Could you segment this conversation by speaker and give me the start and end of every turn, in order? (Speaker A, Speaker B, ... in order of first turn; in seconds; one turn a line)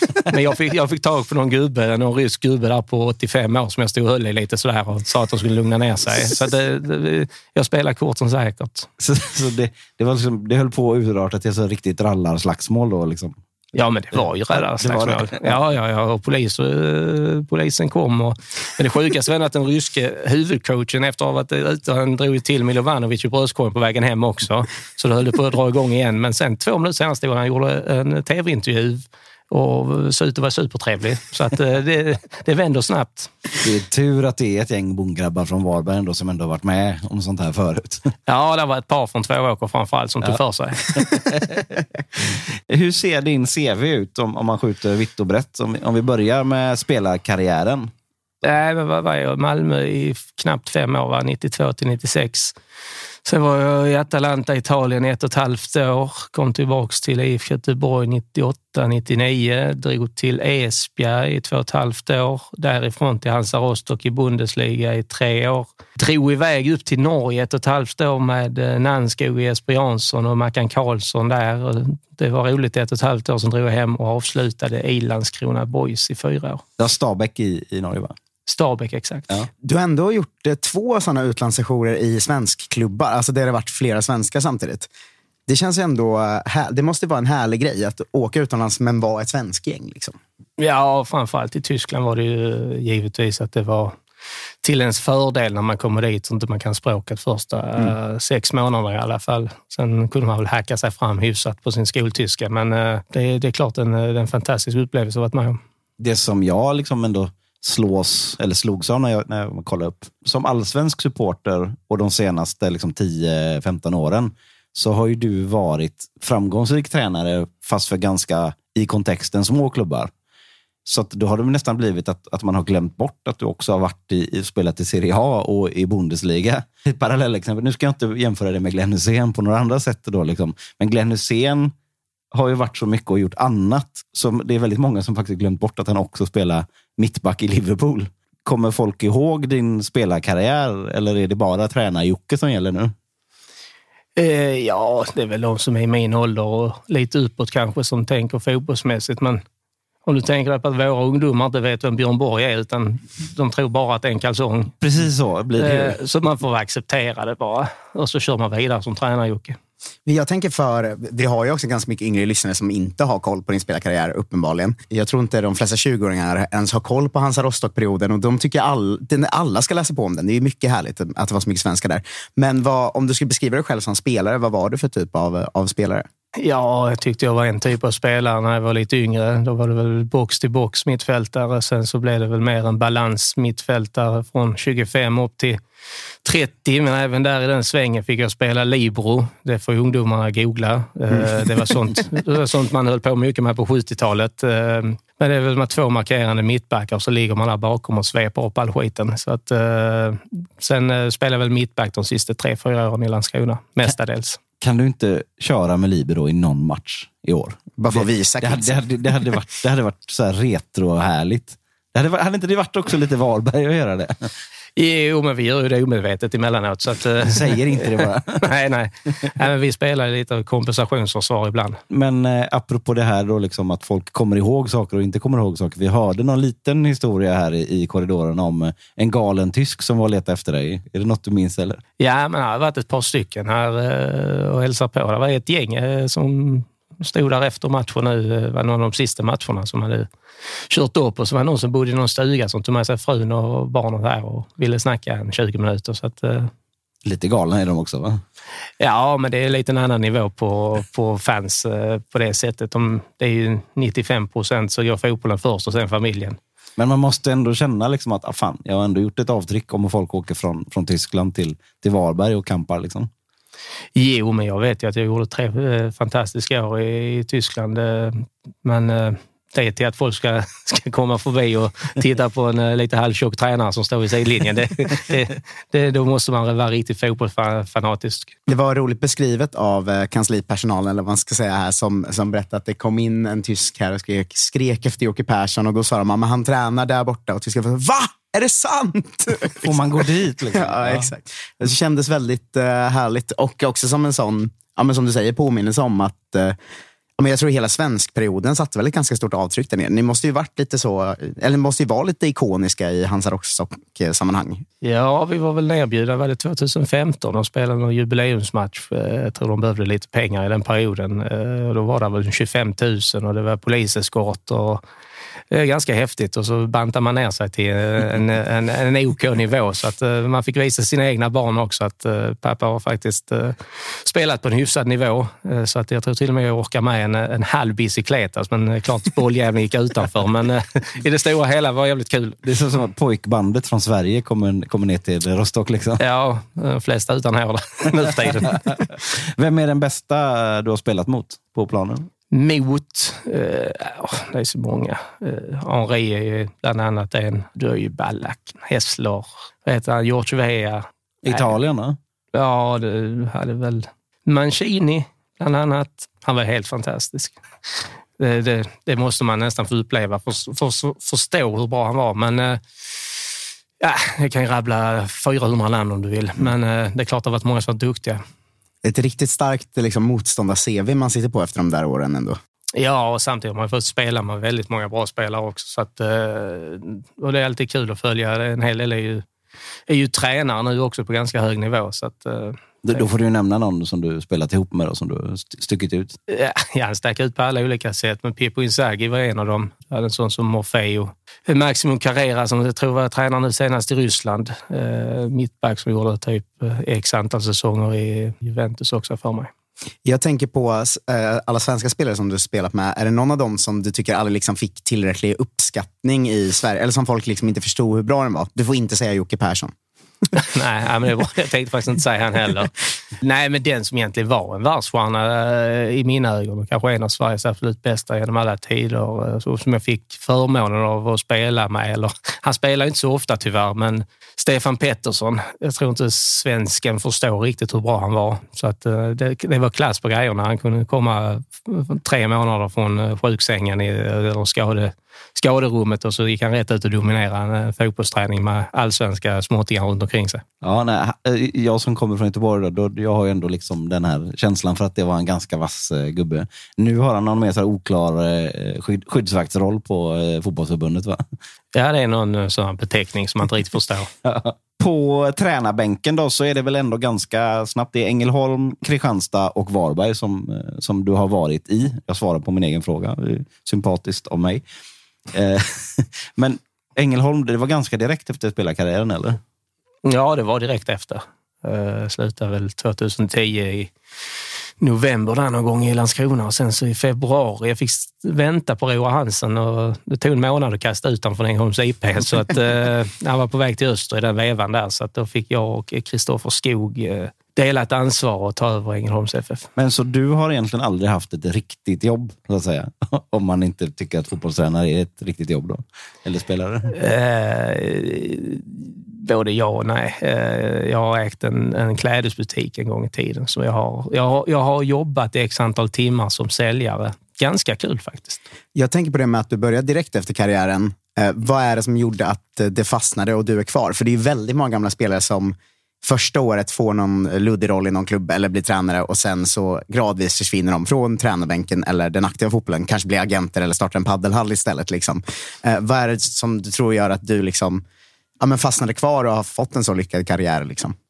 Speaker A: 0.2-8.9
Speaker B: 9.0-13.4
Speaker A: 13.7-33.3
Speaker B: 14.5-15.6
Speaker B: 33.6-38.1
Speaker A: 38.3-40.8
Speaker B: 40.9-41.8
Speaker B: 42.7-47.9
Speaker A: 48.4-52.5
Speaker A: 53.2-76.6
Speaker B: 76.8-78.1
Speaker A: 78.5-79.3
Speaker C: 79.6-84.9
Speaker C: 85.5-90.2
Speaker A: 90.6-94.0
Speaker A: 94.6-105.6
Speaker B: 106.0-120.1
Speaker B: 120.8-131.7
Speaker B: 132.3-142.9
Speaker A: 144.2-149.4
Speaker A: 150.1-154.7
Speaker B: 154.8-156.0
Speaker A: 155.6-159.6
Speaker C: 160.1-176.0
Speaker A: 176.4-185.6
Speaker A: 186.2-204.4
Speaker B: 204.6-214.3
Speaker C: 207.8-208.8
Speaker A: 214.8-221.8
Speaker B: 217.2-218.5
Speaker B: 221.9-231.8
Speaker A: 232.0-240.1
Speaker A: 240.7-246.5
Speaker B: 247.0-248.2
Speaker A: 248.8-256.4
Speaker B: 256.8-263.1
Speaker A: 263.9-278.3
Speaker C: 278.5-289.7
Speaker B: 289.6-291.1
Speaker C: 290.5-296.6
Speaker C: 297.2-304.6
Speaker A: 304.8-314.8
Speaker A: 315.5-332.4
Speaker B: 332.4-336.0
Speaker A: 336.0-338.8
Speaker B: 339.2-342.1
Speaker A: 342.3-351.5
Speaker B: 351.2-352.0
Speaker A: 352.3-362.6
Speaker A: 363.8-368.2
Speaker C: 368.8-372.4
Speaker A: 372.8-379.2
Speaker A: 379.9-383.1
Speaker B: 382.8-386.1
Speaker A: 386.3-399.5
Speaker C: 400.0-409.7
Speaker A: 410.3-440.4
Speaker B: 440.6-451.2
Speaker A: 451.7-454.1
Speaker B: 454.2-464.6
Speaker B: 465.3-469.4
Speaker A: 470.0-473.9
Speaker A: 474.8-489.7
Speaker B: 489.8-496.9
Speaker A: 496.9-508.4
Speaker C: 508.7-527.8
Speaker C: 528.4-530.9